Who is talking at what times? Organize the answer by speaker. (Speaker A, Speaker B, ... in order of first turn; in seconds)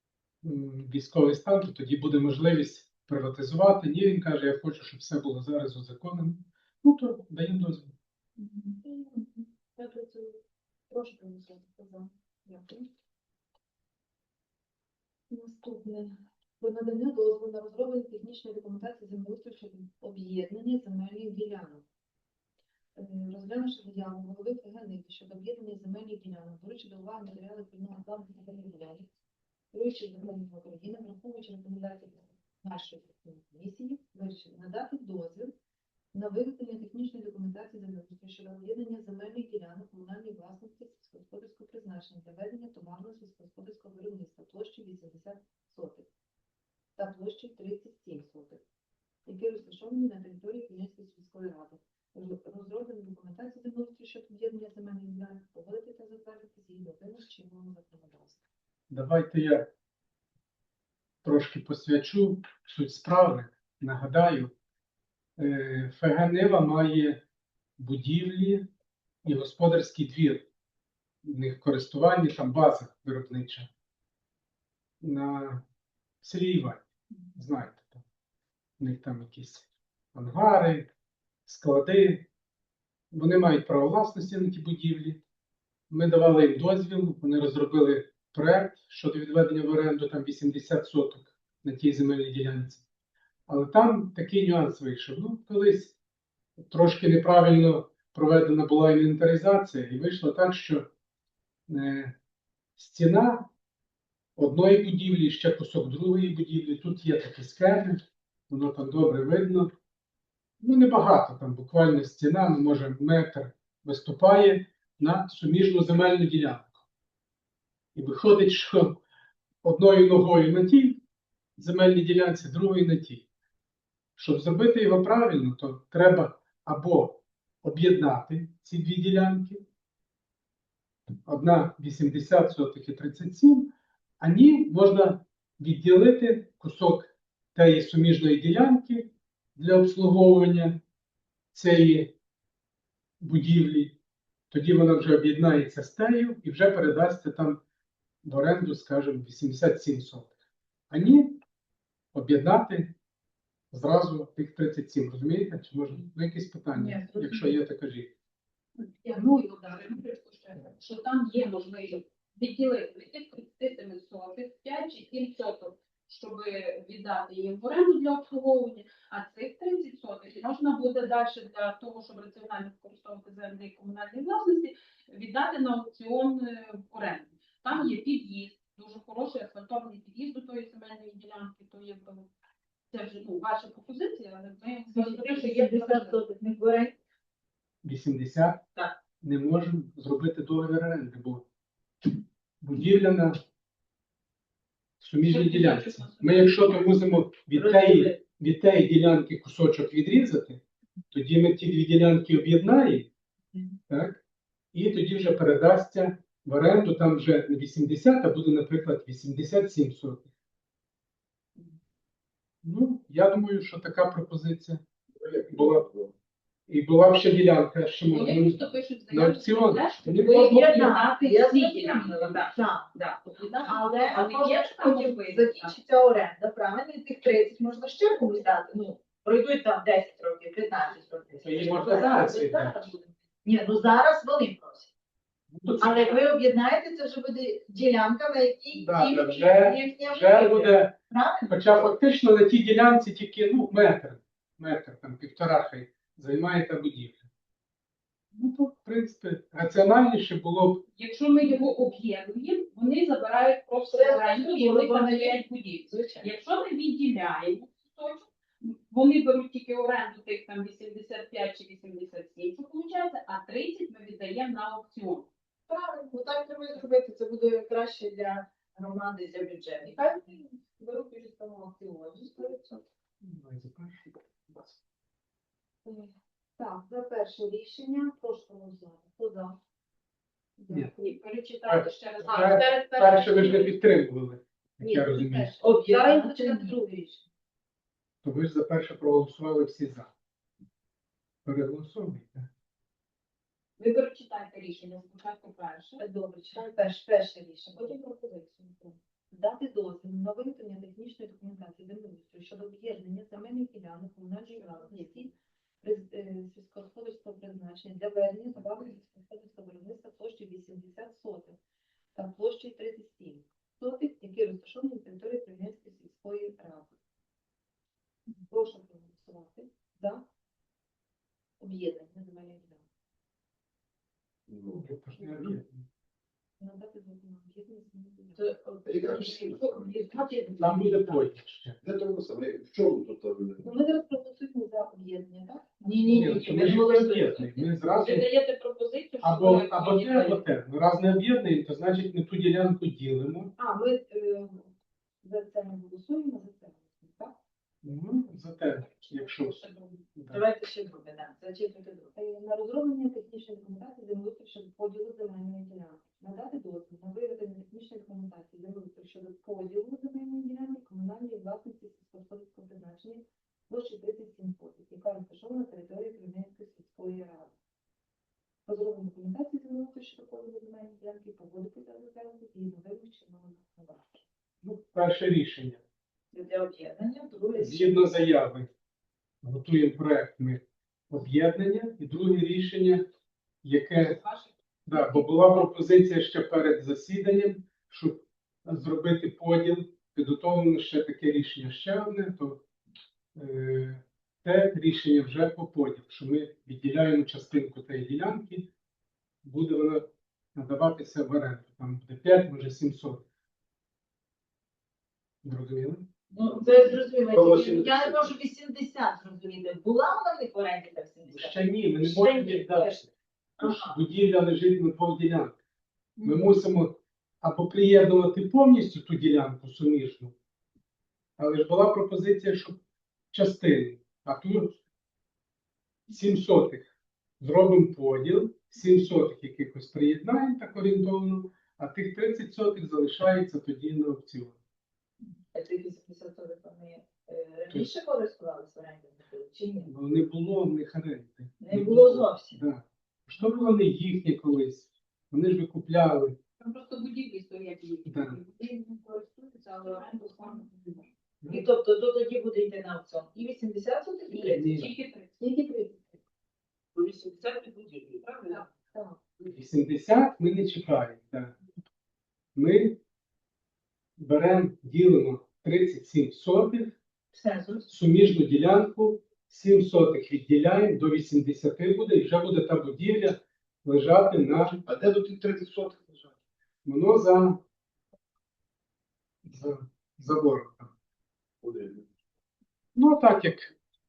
Speaker A: 0.4-7.9, 58.9-59.7, 61.2-64.5, 65.4-67.2, 67.8-68.7, 69.2-70.5, 71.2-73.7, 75.0-75.6, 76.2-76.8, 77.3-78.0, 78.8-80.9, 81.5-82.3, 83.1-85.2, 85.9-92.8, 93.5-96.0, 96.6-100.9, 101.7-102.2, 102.8-103.5, 104.3-109.7, 110.6-116.8, 117.9-119.0, 119.6-121.0, 121.6-123.3, 124.2-129.6, 131.2-140.8, 141.5-142.1, 143.2-144.0, 144.5-147.6, 148.2-150.3, 150.9-151.4, 152.1-152.9, 153.7-158.1, 187.8-188.6, 189.2-191.4, 192.6-193.4, 195.0-203.1, 203.9-204.2, 204.7-210.3, 212.6-214.8, 215.5-215.8, 216.7-220.9, 231.4-232.9, 235.5-236.2, 238.7-241.0, 241.5-247.3, 248.3-250.8, 273.2-274.8, 281.6-285.5, 288.2-290.1, 291.4-292.5, 324.7-325.9, 330.6-331.8, 336.0-338.3, 339.2-343.5, 347.8-349.5, 350.1-350.4, 374.6-375.8, 377.5-378.7, 379.4-383.1, 383.6-384.2, 384.9-392.6, 393.3-398.7, 399.4-403.2, 405.4-406.1, 411.3-413.0, 413.6-415.6, 416.2-420.3, 421.4-422.8, 423.3-424.8, 426.1-434.6, 439.9-446.4, 448.0-448.4, 454.5-454.9, 459.4-461.6, 462.5-463.0, 464.2-466.9, 467.9-474.8, 476.8-477.6, 479.4-480.9, 482.9-483.7
Speaker B: 8.6-12.9, 15.3-21.8, 22.9-29.1, 29.7-35.5, 36.1-46.1, 47.0-48.6, 49.2-58.4, 275.8-279.6, 280.6-281.1, 284.8-287.2, 299.3-311.6, 312.1-316.9, 318.5-320.2, 321.6-322.9, 326.6-328.6, 333.6-336.2, 343.6-344.7, 345.2-347.4, 352.1-367.5, 368.6-374.2, 455.4-456.2, 458.9-459.2
Speaker C: 156.8-157.5, 159.0-182.3, 182.9-186.2, 195.2-197.0, 218.1-225.8, 250.9-265.3, 269.9-270.4, 281.0-283.7, 293.8-296.0, 336.6-336.9, 338.0-340.4, 349.0-350.0, 446.6-451.0, 454.3-455.4
Speaker D: 159.1-159.8, 184.9-186.9, 197.5-198.2, 220.1-222.9, 223.6-234.9, 235.8-241.6, 253.8-256.3, 265.7-270.2, 270.8-272.8, 285.6-286.8, 296.0-298.6, 304.6-305.0, 328.4-331.2, 335.8-337.5, 350.3-352.1, 376.3-378.1, 406.3-413.1, 413.6-413.9, 435.5-439.9, 441.6-442.6, 451.5-454.9, 456.9-458.6, 467.3-467.9
Speaker E: 215.2-216.1, 324.5-325.0, 328.8-330.0, 331.8-333.6, 406.4-408.3, 474.8-476.3, 481.6-482.1